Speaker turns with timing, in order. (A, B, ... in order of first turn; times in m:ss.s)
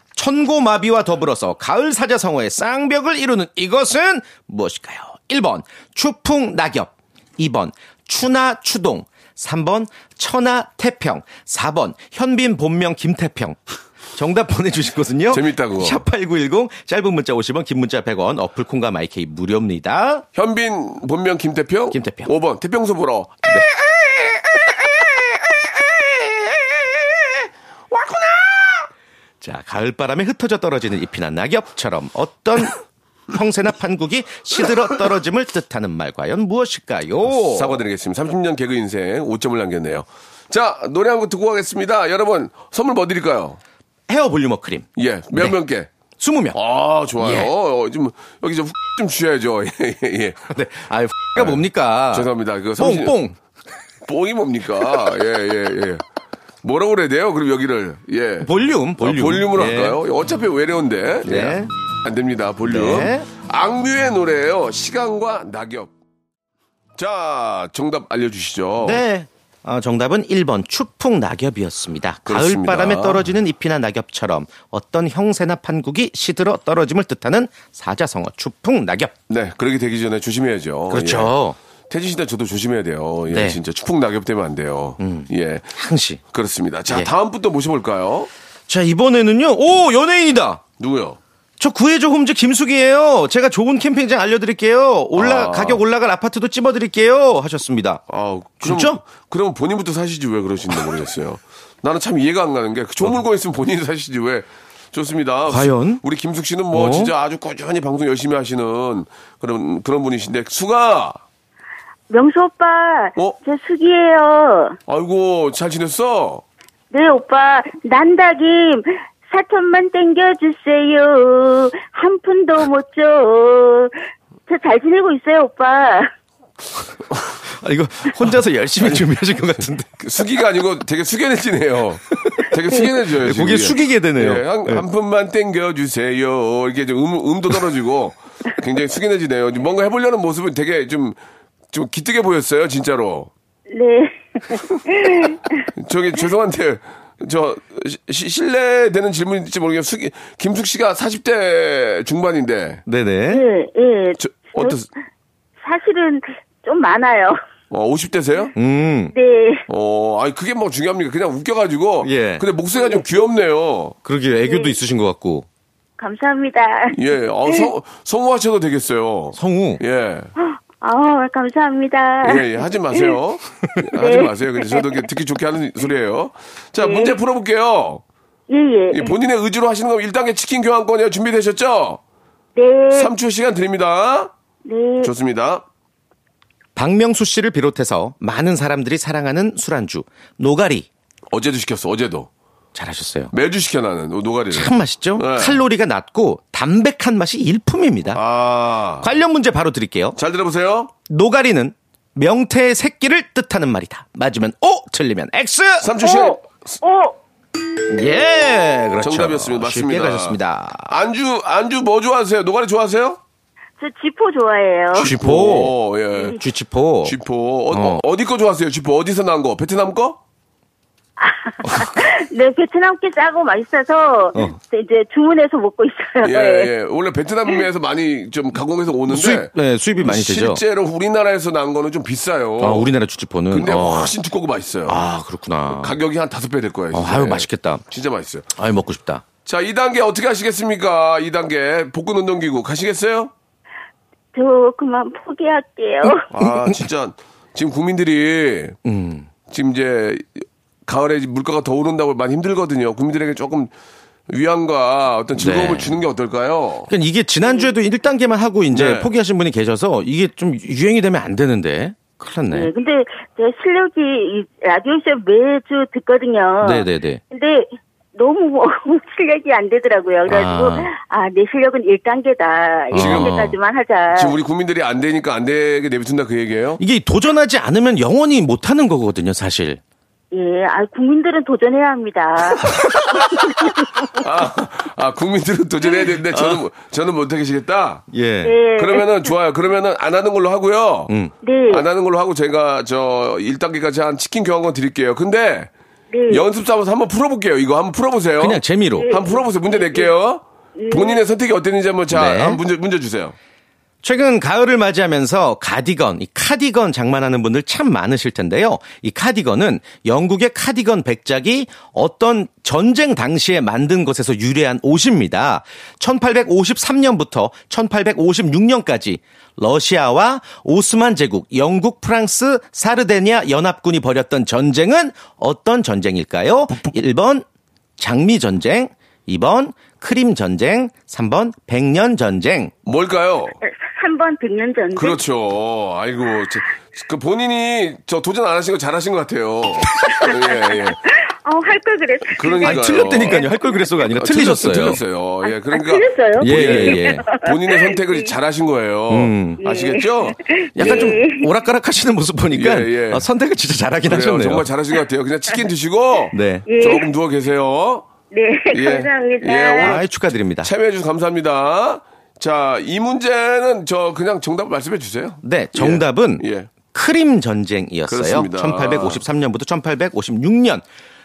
0:00.2-0:13.6 A
0:14.1-0:20.2 A
0:15.3-0:16.0 B
0:20.3-0:23.5 B
0:21.9-0:22.3 A
0:29.4-0:32.8 A
0:33.3-0:37.8 A
0:37.2-0:43.6 B
0:44.1-0:45.6 A
0:45.0-0:45.9 B
0:46.2-0:46.6 A
0:46.5-0:50.5 B
0:47.2-0:47.5 A
0:50.5-0:53.4 A
0:51.4-0:53.2 B
0:54.0-0:56.0 B
0:56.6-1:05.9 B
0:58.4-1:00.0 A
1:01.2-1:01.7 A
1:02.7-1:03.3 A
1:07.0-1:09.0 B
1:08.8-1:19.1 A
1:12.2-1:13.3 B
1:19.3-1:21.3 B
1:20.9-1:21.6 A
1:21.9-1:25.7 B
1:23.3-1:23.6 A
1:25.0-1:26.2 A
1:26.3-1:28.3 B
1:28.7-1:30.6 A
1:30.8-1:31.2 B
1:31.6-1:38.0 A
1:35.2-1:35.8 B
1:38.1-1:51.2 B
1:38.6-1:39.0 A
1:45.5-1:46.0 A
1:46.7-1:47.1 A
1:52.1-1:54.7 C
1:54.9-1:56.4 B
1:56.9-2:03.9 C
2:04.5-2:06.1 C
2:07.6-2:09.9 A
2:08.8-2:09.1 B
2:10.0-2:21.2 B
2:13.2-2:14.8 A
2:21.7-2:23.3 B
2:23.7-2:24.1 C
2:25.2-2:32.8 B
2:32.9-2:33.5 A
2:33.3-2:34.8 C
2:34.2-2:34.9 B
2:35.6-2:37.4 C
2:37.7-2:38.5 B
2:38.6-2:39.1 A
2:39.1-2:39.6 C
2:39.7-2:44.0 B
2:42.0-2:42.4 A
2:44.0-2:45.4 A
2:46.0-2:47.0 C
2:46.9-2:50.3 B
2:49.3-2:49.8 A
2:50.8-2:52.4 C
2:52.2-2:58.0 B
2:54.0-2:54.3 C
2:56.8-2:57.1 C
2:58.5-2:59.1 C
2:58.9-3:02.0 B
3:02.6-3:03.1 C
3:02.9-3:04.3 B
3:04.6-3:05.1 C
3:05.0-3:05.6 B
3:06.8-3:10.9 A
3:11.3-3:12.3 B
3:12.7-3:13.3 A
3:13.3-3:15.6 B
3:14.5-3:18.2 A
3:18.1-3:19.1 B
3:19.0-3:20.2 A
3:20.2-3:20.9 B
3:21.1-3:25.9 A
3:25.8-3:26.8 B
3:27.9-3:30.9 A
3:29.0-3:33.2 B
3:33.8-3:35.1 C
3:34.9-3:36.4 B
3:35.0-3:37.2 A
3:37.0-3:40.2 B
3:37.7-3:38.0 A
3:41.2-3:46.7 C
3:46.2-3:52.9 B
3:49.1-3:50.6 A
3:52.6-3:54.1 A
3:53.5-3:55.0 B
3:54.9-3:56.0 A
3:55.7-3:58.5 B
3:56.9-3:57.8 A
3:58.6-3:59.2 A
3:59.4-4:03.3 B
4:04.3-4:06.1 C
4:06.1-4:08.8 B
4:06.4-4:06.8 A
4:08.8-4:09.3 A
4:09.5-4:10.3 B
4:10.9-4:13.7 B
4:14.3-4:16.9 B
4:15.4-4:16.0 A
4:16.9-4:22.7 A
4:18.7-4:19.1 B
4:22.5-4:34.3 C
4:26.6-4:27.2 A
4:30.2-4:30.9 A
4:32.9-4:33.5 B
4:32.9-4:33.6 A
4:34.1-4:36.8 B
4:36.8-4:39.8 A
4:40.3-4:43.4 C
4:44.1-4:48.1 B
4:46.3-4:46.6 A
4:48.1-4:48.6 A
4:48.4-4:49.2 C
4:48.7-4:51.1 B
4:51.1-4:51.3 A
4:51.4-4:51.8 C
4:51.7-4:55.7 B
4:56.1-4:56.4 C
4:56.3-5:03.4 B
4:58.4-4:59.1 A
4:59.0-5:00.1 C
5:00.8-5:01.2 C
5:02.1-5:02.6 A
5:04.0-5:27.4 A
5:28.0-5:32.7 A
5:32.8-5:33.6 B
5:33.9-5:35.2 C
5:34.9-5:41.0 B
5:40.2-5:40.8 C
5:41.4-5:43.4 C
5:42.4-5:43.5 B
5:42.6-5:45.0 A
5:44.1-5:51.2 B
5:45.5-5:48.1 C
5:46.4-5:47.2 A
5:49.1-5:49.6 A
5:49.6-5:51.4 C
5:50.8-5:54.7 A
5:52.5-5:53.2 B
5:54.0-5:58.1 B
5:56.3-5:56.7 A
5:56.7-5:57.1 C
5:58.3-6:00.0 C
5:58.7-6:00.0 B
5:59.8-6:00.7 A
6:00.6-6:06.7 B
6:05.4-6:10.8 A
6:08.1-6:09.2 B